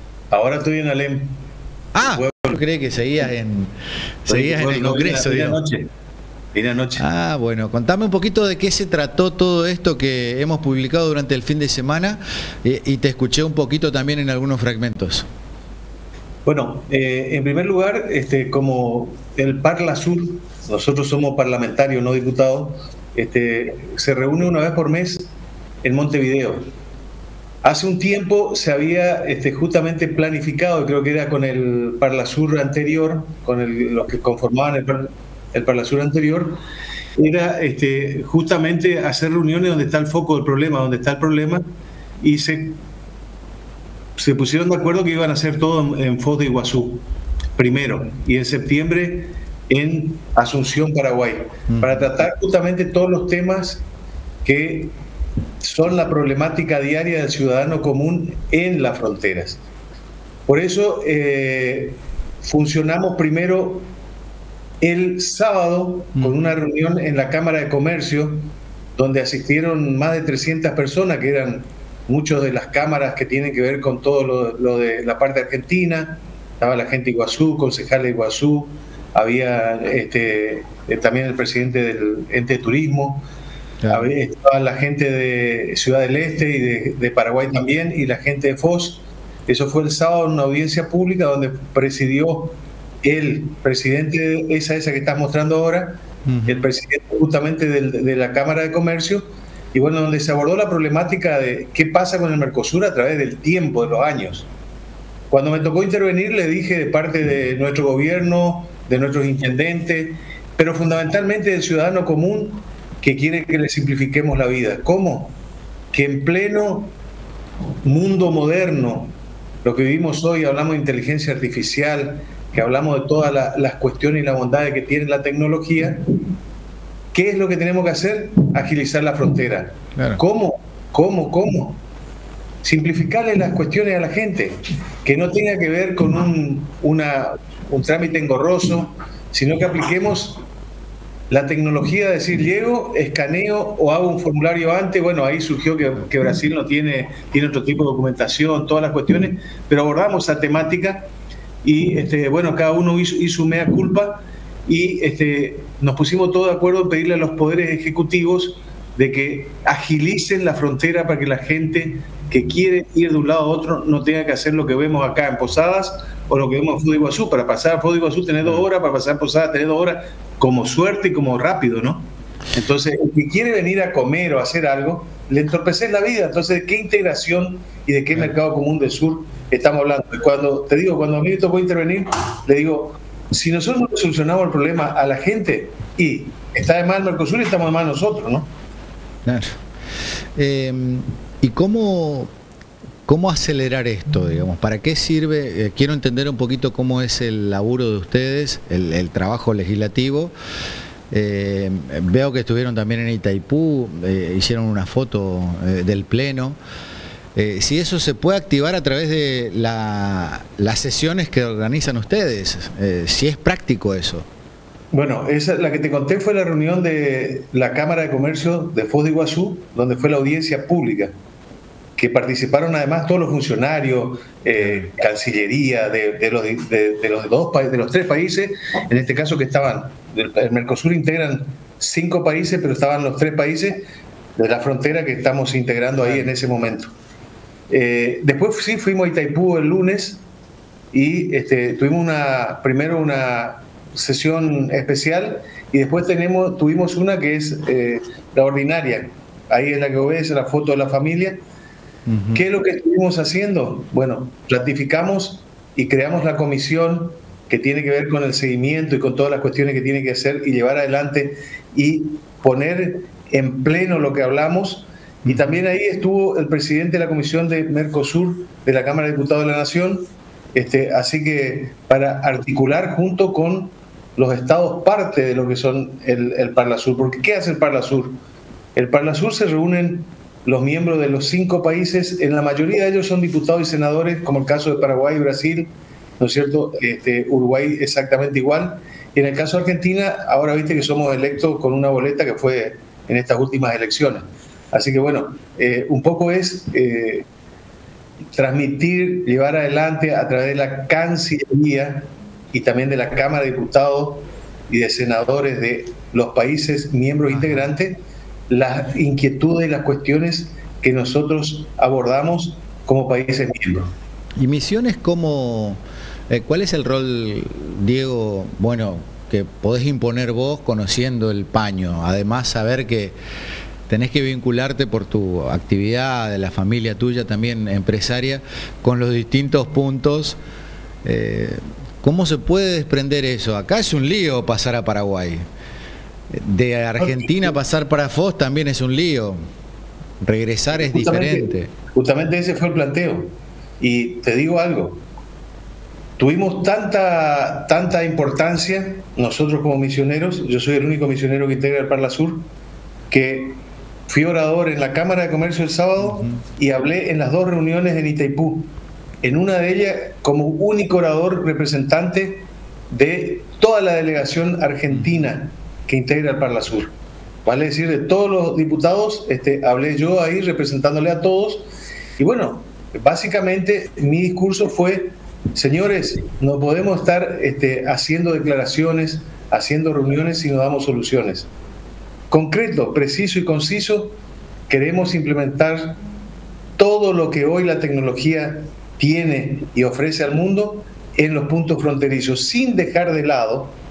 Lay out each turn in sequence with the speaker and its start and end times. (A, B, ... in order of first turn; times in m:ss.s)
0:00.3-0:01.3 A
0:01.9-0:05.6 B
0:02.0-0:02.6 A
0:04.3-0:05.9 A
0:06.5-0:07.0 A
0:07.0-0:15.3 B
0:16.4-0:26.7 A
0:27.6-0:36.6 A
0:37.2-0:41.6 A
0:42.2-0:42.8 A
0:44.2-0:47.0 A
0:47.6-0:53.8 A
0:51.7-0:52.0 B
0:54.4-0:55.0 A
0:55.6-0:59.6 A
1:00.4-1:03.9 A
1:04.8-1:23.2 A
1:23.8-1:24.1 B
1:23.9-1:44.5 A
1:36.2-1:36.6 B
1:45.3-1:55.3 A
1:55.9-1:56.9 A
1:57.8-2:06.0 A
2:07.1-2:11.8 A
2:09.9-2:10.2 B
2:12.6-2:20.4 A
2:21.3-2:31.1 A
2:31.6-3:08.5 A
3:09.2-3:09.6 B
3:10.4-3:12.3 B
3:13.0-3:20.3 B
3:21.1-3:26.6 B
3:27.3-3:34.2 B
3:34.9-3:41.1 A
3:42.0-3:53.8 A
3:54.4-3:56.9 A
3:57.7-4:00.2 A
4:00.9-4:11.4 A
4:12.0-4:12.4 B
4:12.3-4:38.2 A
4:38.8-4:57.2 A
4:58.3-5:08.0 A
5:07.4-5:07.6 B
5:08.5-5:13.9 A
5:14.4-5:23.2 B
5:23.9-5:30.4 B
5:31.0-5:35.4 B
5:36.3-5:39.4 B
5:37.0-5:37.5 A
5:40.2-5:41.7 B
5:40.7-5:45.0 A
5:46.2-5:52.4 A
5:53.1-5:58.7 A
5:56.1-5:56.4 B
5:59.2-6:06.9 A
6:07.4-6:21.5 A
6:22.3-6:24.2 A
6:24.7-6:26.0 A
6:26.8-6:33.7 A